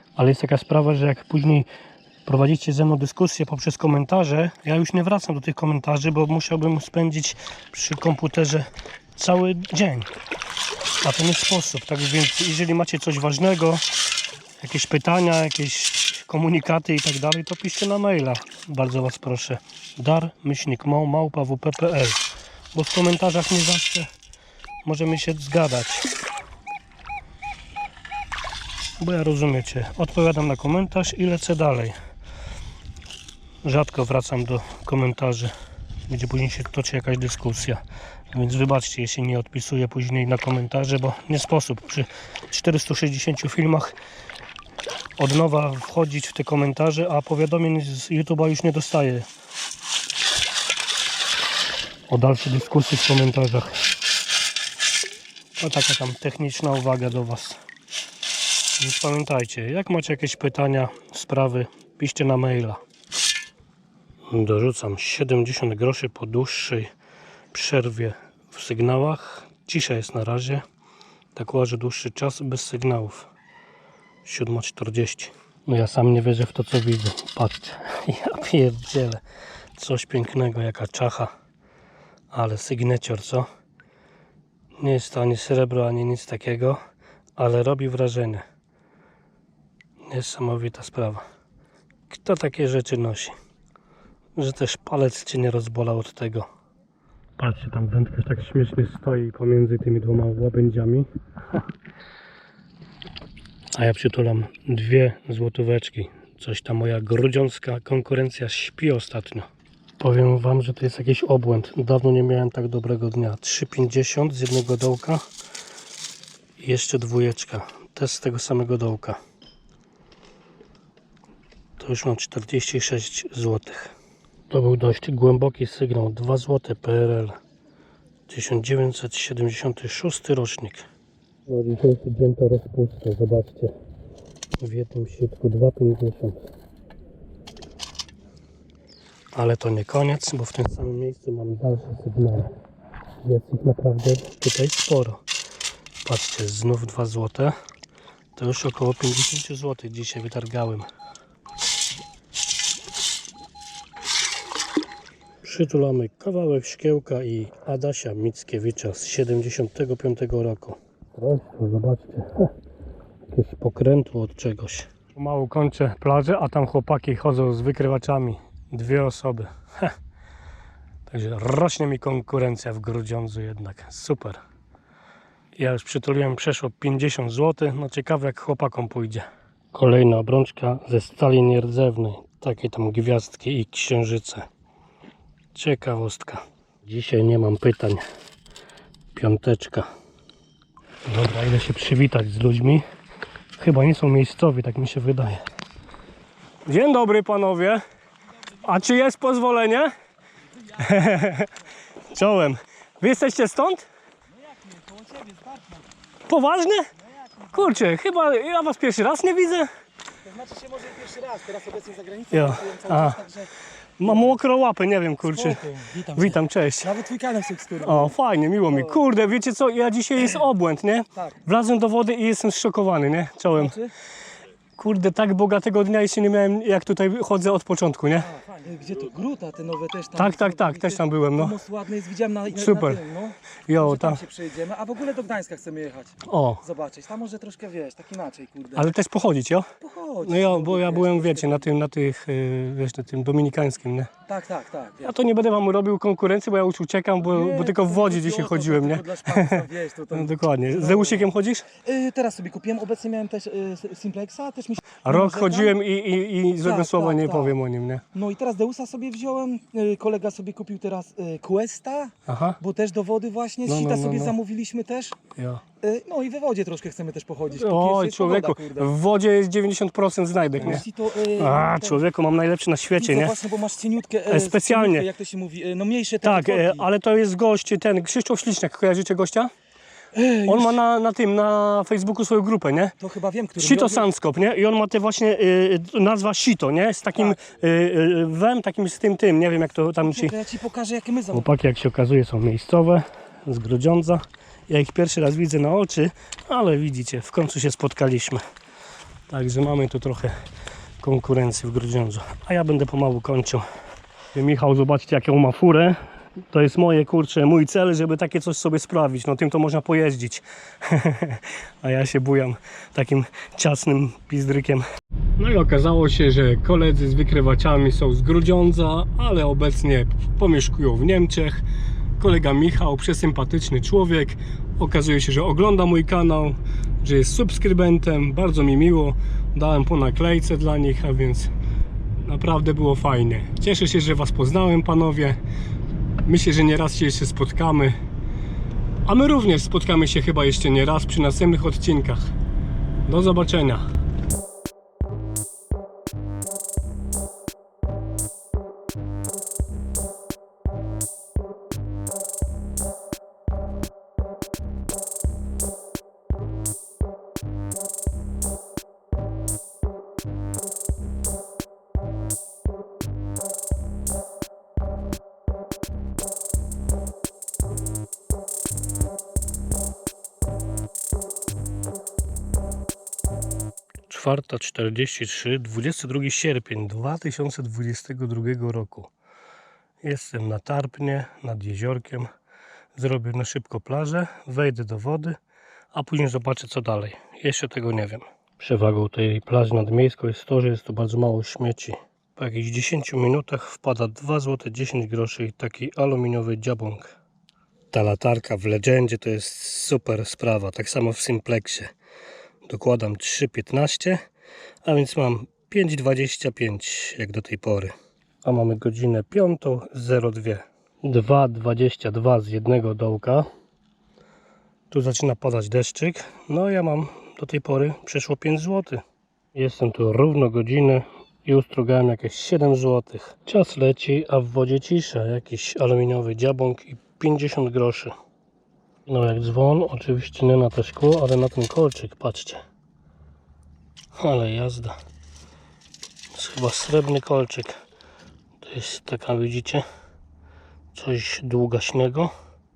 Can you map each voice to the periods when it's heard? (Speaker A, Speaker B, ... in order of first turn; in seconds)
Speaker A: 0.2-1.7, 2.2-10.1, 11.0-13.8, 14.6-24.1, 24.8-26.1, 29.0-31.9, 33.6-35.5, 36.1-37.8, 38.3-44.0, 45.2-49.3, 52.1-53.7, 55.6-57.6, 58.8-62.8, 64.3-66.9, 67.5-70.6, 71.3-73.3, 74.2-79.2, 79.8-81.3, 82.3-83.5, 84.8-86.8, 87.4-88.4, 90.1-91.2, 92.1-93.4, 94.4-96.5, 97.4-101.1, 103.8-109.5, 110.0-115.2, 116.6-119.2, 121.8-124.0, 124.5-127.4, 128.3-130.8, 131.5-133.7, 134.6-136.4, 139.3-142.5, 143.2-145.2, 146.0-147.6, 148.4-150.9, 155.4-162.5, 163.3-169.9, 171.1-174.4, 175.6-184.5, 185.5-188.0, 189.2-189.9, 191.1-192.8, 193.6-195.4, 196.7-197.8, 198.5-199.9, 200.7-201.5, 202.1-203.8, 206.3-206.9, 207.5-209.7, 212.3-213.2, 214.0-215.6, 216.1-216.9, 217.8-223.8, 224.8-228.3, 230.2-231.6, 232.5-233.0, 233.7-234.2, 236.3-236.6, 238.8-239.7, 240.2-244.1, 245.0-251.7, 255.0-258.1, 262.3-262.6, 263.7-264.4, 265.4-265.6, 267.5-273.4, 274.3-275.1, 276.2-279.5, 280.4-282.9, 283.6-290.4, 291.3-298.4, 299.3-300.3, 301.0-303.7, 304.3-306.0, 306.5-314.9, 315.4-321.6, 322.2-331.5, 332.2-335.4, 336.2-338.0, 339.1-342.3, 343.1-343.9, 374.1-379.1, 380.0-382.3, 383.0-385.4, 385.9-397.2, 397.9-401.9, 402.7-404.2, 404.8-413.5, 414.9-419.0, 419.5-428.1, 429.1-432.6, 434.2-435.0, 436.3-437.8, 438.6-439.9, 440.9-442.3
Speaker B: 204.4-205.9, 210.2-213.5, 214.1-214.3, 215.3-218.1, 218.7-219.0, 223.5-223.9, 228.2-238.9, 239.8-241.7, 244.3-245.1, 247.2-251.3, 251.8-255.7, 256.6-257.5, 258.1-265.2, 265.8-268.9, 270.6-272.1, 273.0-276.9, 280.1-280.8, 283.0-284.1, 290.1-291.5